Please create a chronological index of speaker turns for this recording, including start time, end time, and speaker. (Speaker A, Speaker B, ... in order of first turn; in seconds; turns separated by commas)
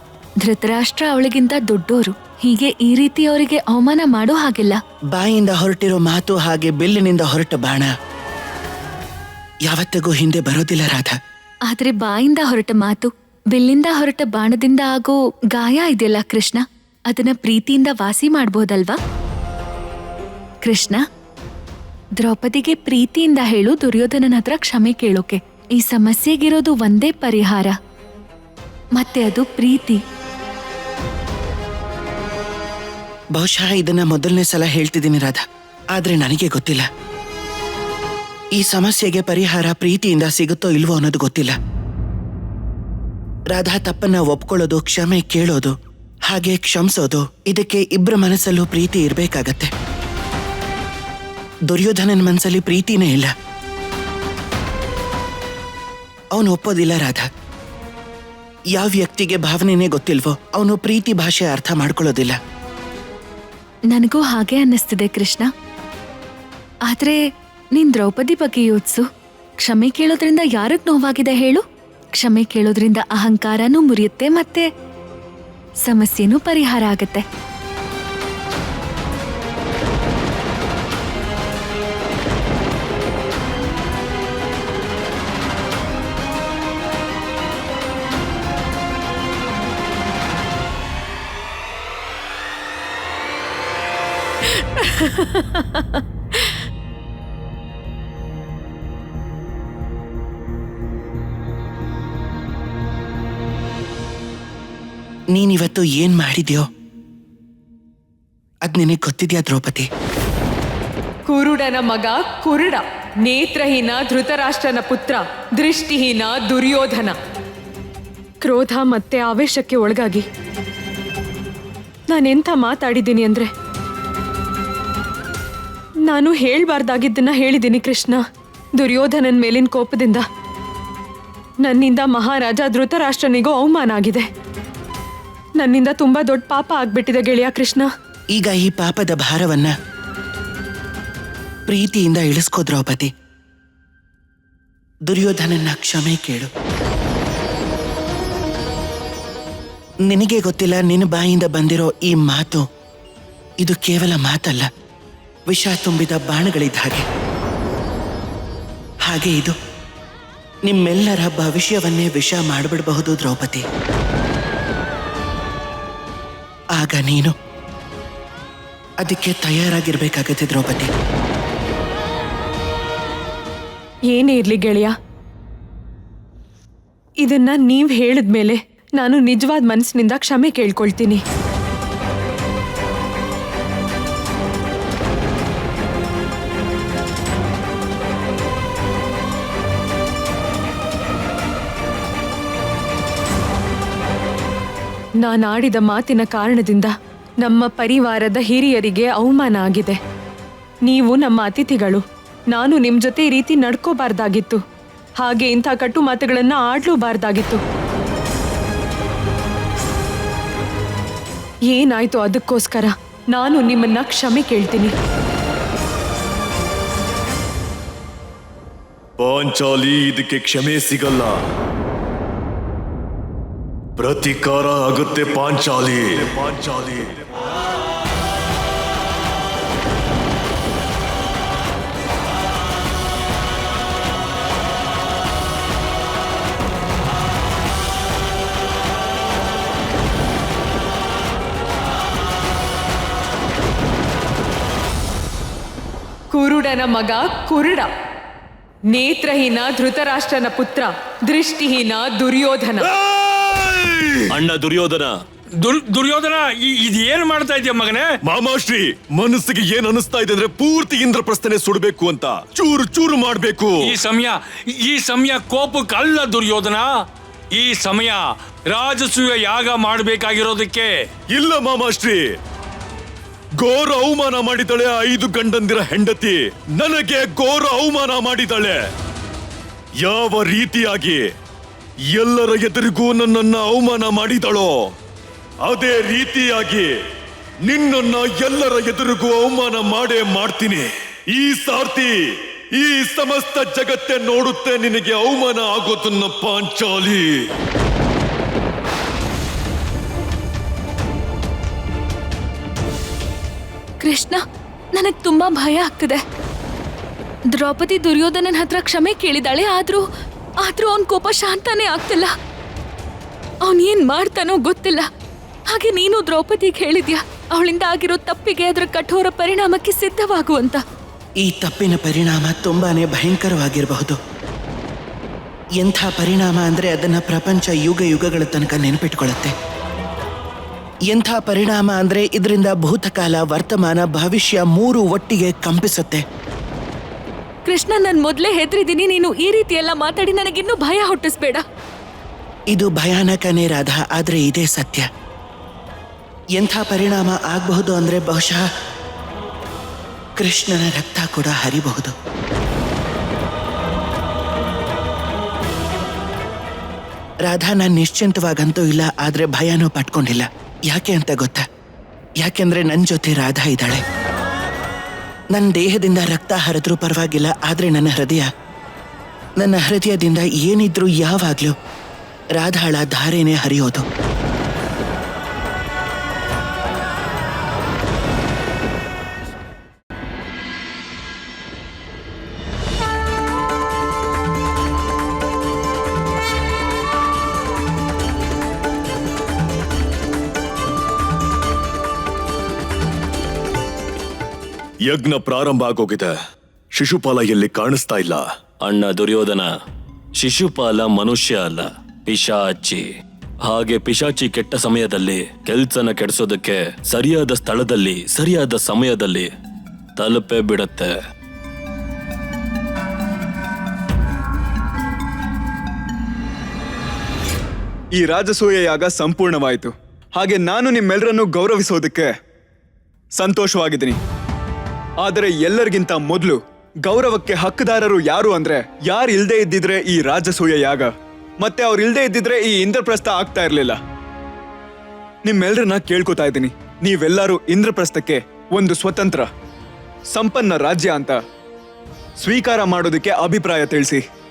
Speaker A: 0.4-4.8, Speaker B: 5.1-7.9, Speaker B: 9.6-11.2, Speaker A: 11.7-19.0, Speaker A: 20.6-21.0, Speaker A: 22.2-27.8, Speaker A: 28.9-30.0, Speaker B: 33.4-35.4, Speaker B: 35.9-36.9, Speaker B: 38.5-41.6, Speaker B: 43.5-45.7, Speaker B: 46.3-49.7, Speaker B: 51.7-53.3, Speaker B: 56.3-57.3, Speaker B: 58.7-62.4, Speaker A: 63.9-65.5, Speaker A: 66.9-67.2, Speaker A: 67.7-69.0, Speaker A: 69.6-71.6, Speaker A: 72.1-74.7, Speaker A: 75.8-77.2, Speaker C: 94.8-95.4, Speaker B: 105.3-106.6, Speaker B: 108.6-109.9, Speaker C: 111.3-117.2, Speaker C: 118.4-120.2, Speaker C: 122.1-123.5, Speaker C: 126.1-128.2, Speaker C: 128.8-130.2, Speaker C: 131.6-134.3, Speaker C: 135.6-137.9, Speaker B: 138.3-139.7, Speaker B: 141.7-143.1, Speaker B: 145.1-146.5, Speaker B: 150.1-152.6, Speaker B: 153.6-154.7, Speaker B: 155.5-157.1, Speaker B: 159.1-159.6, Speaker B: 160.7-163.6, Speaker B: 166.7-167.3, Speaker B: 169.0-170.9, Speaker C: 174.1-174.9, Speaker C: 177.2-181.2, Speaker C: 195.2-200.0, Speaker C: 200.8-204.6, Speaker C: 205.2-207.6, Speaker C: 211.7-214.9, Speaker D: 219.2-221.3, Speaker D: 224.0-227.2, Speaker C: 246.3-247.9, Speaker C: 248.9-252.9, Speaker D: 252.9-254.3, Speaker E: 254.3-255.2, Speaker F: 255.6-258.1, Speaker D: 258.3-263.9, Speaker F: 263.8-271.0, Speaker D: 271.3-272.2, Speaker D: 273.6-278.8, Speaker D: 280.0-281.3, Speaker D: 282.1-284.7, Speaker D: 285.6-286.9, Speaker D: 287.6-292.1, Speaker D: 292.8-297.4, Speaker A: 304.0-304.4, Speaker A: 304.9-306.2, Speaker A: 307.5-310.1, Speaker A: 310.6-312.3, Speaker A: 313.6-315.1, Speaker A: 315.7-320.8, Speaker B: 321.4-324.2, Speaker B: 325.8-329.5, Speaker B: 331.1-336.2, Speaker A: 337.6-341.6, Speaker B: 342.7-345.1, Speaker B: 346.6-348.7, Speaker B: 350.4-352.1, Speaker B: 357.4-361.6, Speaker B: 362.4-364.0, Speaker B: 365.5-368.5, Speaker B: 369.6-371.7, Speaker B: 372.6-374.1, Speaker D: 395.1-396.3, Speaker D: 396.9-398.4, Speaker E: 398.8-399.7, Speaker E: 400.4-403.1, Speaker E: 403.6-409.5, Speaker E: 410.2-411.1, Speaker G: 418.2-422.3, Speaker G: 423.3-424.2, Speaker G: 425.2-434.0, Speaker G: 435.4-439.5, Speaker G: 440.3-441.4, Speaker G: 442.4-444.2